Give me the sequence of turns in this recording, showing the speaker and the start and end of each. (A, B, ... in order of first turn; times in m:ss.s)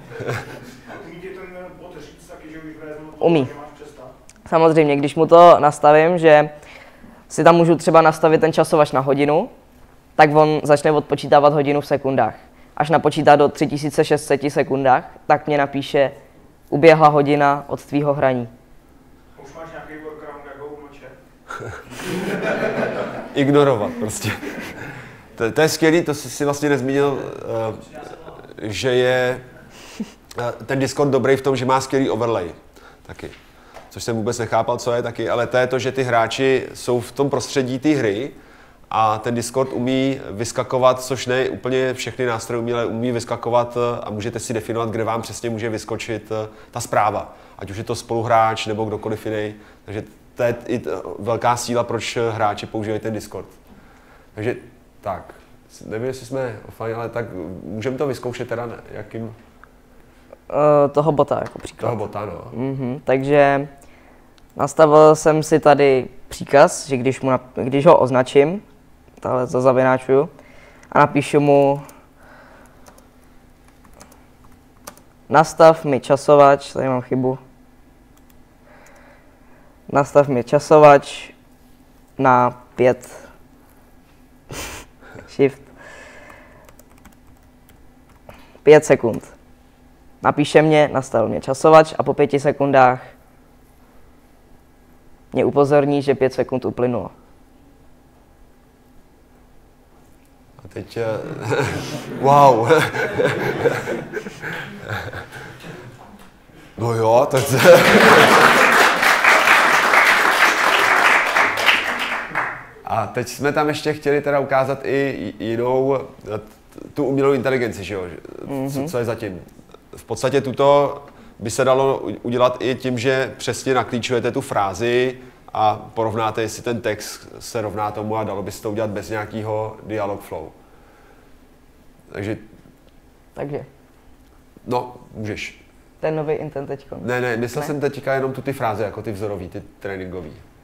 0:00.3-0:04.1 A
0:03.2-0:03.5 B
0:04.5-0:06.5 B
0:07.3-0:09.5 B
0:10.2-0:16.2 B
0:16.7-0:18.5 B
0:19.4-0:21.2 A
0:22.1-0:22.7 A
0:23.3-0:29.5 C
0:30.3-0:33.4 C
0:33.9-0:38.4 C
0:38.9-0:53.6 C
0:54.3-0:59.4 C
1:00.5-1:02.0 B
1:01.8-1:02.5 C
1:02.5-1:03.7 B
1:04.6-1:08.6 B
1:09.2-1:10.3 B
1:10.9-1:11.8 B
1:15.3-1:17.4 B
1:19.9-1:21.3 B
1:22.2-1:23.2 B
1:25.3-1:25.7 B
1:28.6-1:29.3 B
1:30.2-1:33.1 B
1:35.3-1:37.1 B
1:40.6-1:45.3 C
1:46.8-1:48.7 C
1:52.8-2:10.5 C
1:58.5-1:58.9 B
2:12.1-2:12.5 C
2:13.4-2:13.7 B
2:14.6-2:15.6 C
2:16.0-2:17.7 B
2:17.0-2:20.4 C